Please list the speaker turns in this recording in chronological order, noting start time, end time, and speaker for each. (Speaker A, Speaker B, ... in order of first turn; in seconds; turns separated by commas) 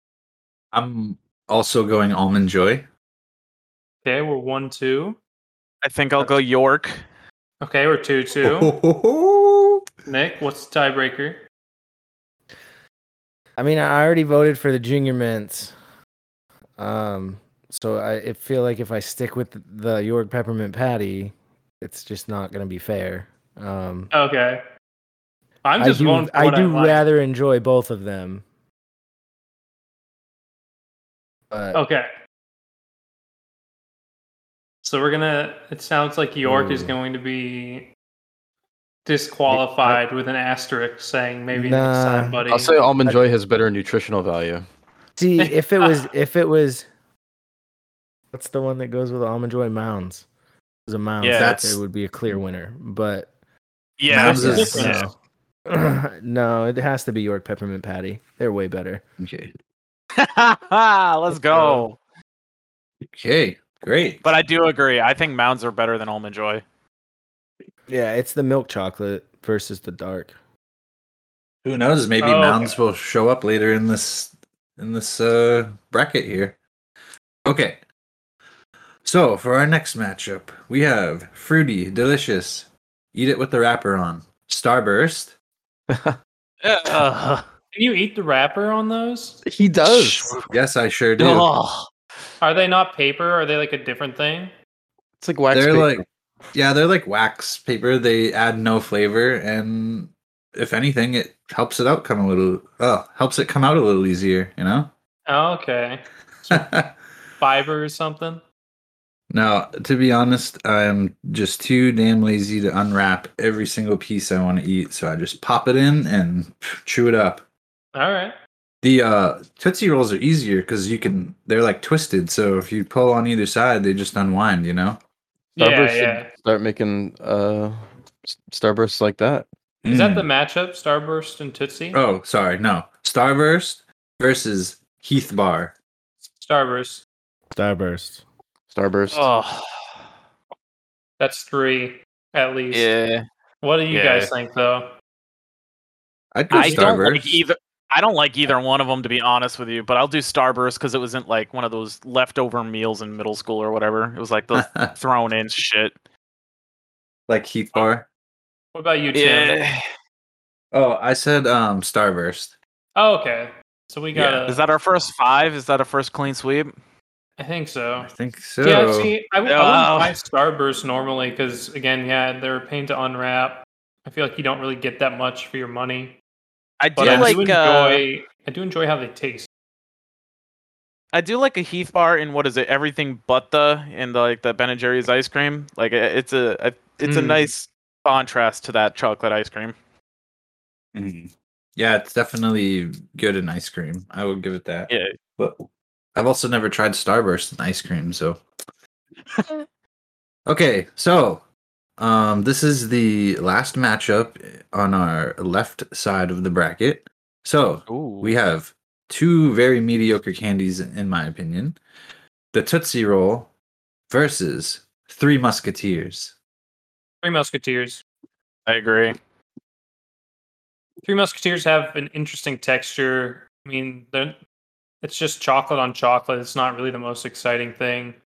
Speaker A: 0.7-2.9, Speaker B: 4.0-5.2, Speaker C: 5.8-7.0, Speaker B: 7.6-8.7, Speaker A: 8.4-9.8, Speaker B: 10.1-11.4, Speaker D: 13.6-15.7, Speaker D: 16.8-24.1, Speaker B: 24.1-24.6, Speaker B: 25.6-27.0, Speaker D: 25.8-28.4, Speaker D: 31.5-31.8, Speaker B: 31.7-32.1, Speaker B: 34.8-37.9, Speaker D: 36.5-36.9, Speaker B: 39.0-42.8, Speaker D: 41.5-42.4, Speaker E: 42.5-44.6, Speaker D: 45.2-46.9, Speaker B: 45.4-46.1, Speaker D: 48.3-50.3, Speaker D: 50.9-53.3, Speaker C: 51.2-51.6, Speaker A: 51.4-51.8, Speaker C: 54.0-55.0, Speaker D: 54.1-55.1, Speaker A: 54.2-54.9, Speaker B: 54.2-55.1, Speaker D: 55.7-59.0, Speaker A: 59.2-59.5, Speaker C: 60.2-62.0, Speaker B: 61.5-61.8, Speaker A: 63.1-64.3, Speaker C: 64.2-66.6, Speaker D: 67.9-70.3, Speaker A: 71.6-76.6, Speaker B: 72.2-72.8, Speaker A: 77.5-77.8, Speaker A: 79.0-85.3, Speaker E: 85.9-86.2, Speaker C: 86.6-87.0, Speaker B: 86.9-89.4, Speaker E: 89.5-90.5, Speaker C: 89.8-90.5, Speaker A: 90.5-91.5, Speaker E: 91.2-91.5, Speaker C: 91.2-91.8, Speaker B: 92.4-94.5, Speaker E: 95.2-96.1, Speaker A: 95.5-104.9, Speaker B: 105.3-106.7, Speaker A: 106.5-107.0, Speaker B: 107.4-108.4, Speaker A: 109.3-117.5, Speaker B: 118.0-118.3, Speaker A: 118.8-125.0, Speaker B: 125.6-126.3, Speaker E: 125.6-129.5, Speaker A: 129.8-130.3, Speaker B: 129.9-132.0, Speaker A: 131.9-135.8, Speaker B: 136.4-137.0, Speaker D: 137.5-138.2, Speaker E: 138.7-139.3, Speaker C: 139.1-140.0, Speaker B: 141.2-142.9, Speaker C: 142.7-143.3, Speaker B: 143.6-144.9, Speaker C: 143.9-144.3, Speaker A: 146.3-147.4, Speaker C: 146.5-155.9, Speaker A: 154.5-155.0, Speaker A: 157.3-158.1, Speaker B: 158.8-159.6, Speaker C: 159.1-159.8, Speaker A: 160.7-162.6, Speaker B: 163.0-164.6, Speaker A: 164.1-164.4, Speaker C: 164.5-166.7, Speaker B: 167.4-168.1, Speaker A: 168.0-169.1, Speaker B: 168.6-176.2, Speaker C: 169.5-170.2, Speaker C: 176.8-178.0, Speaker B: 177.0-179.5, Speaker A: 177.0-177.4, Speaker C: 181.1-189.7, Speaker B: 187.0-187.5, Speaker A: 190.9-198.4, Speaker C: 194.9-195.2, Speaker A: 200.5-201.4, Speaker A: 202.0-211.8, Speaker C: 207.9-208.3, Speaker A: 212.5-213.5, Speaker A: 214.1-216.4, Speaker B: 217.2-218.0, Speaker C: 218.7-219.2, Speaker B: 221.0-224.4, Speaker B: 225.0-228.2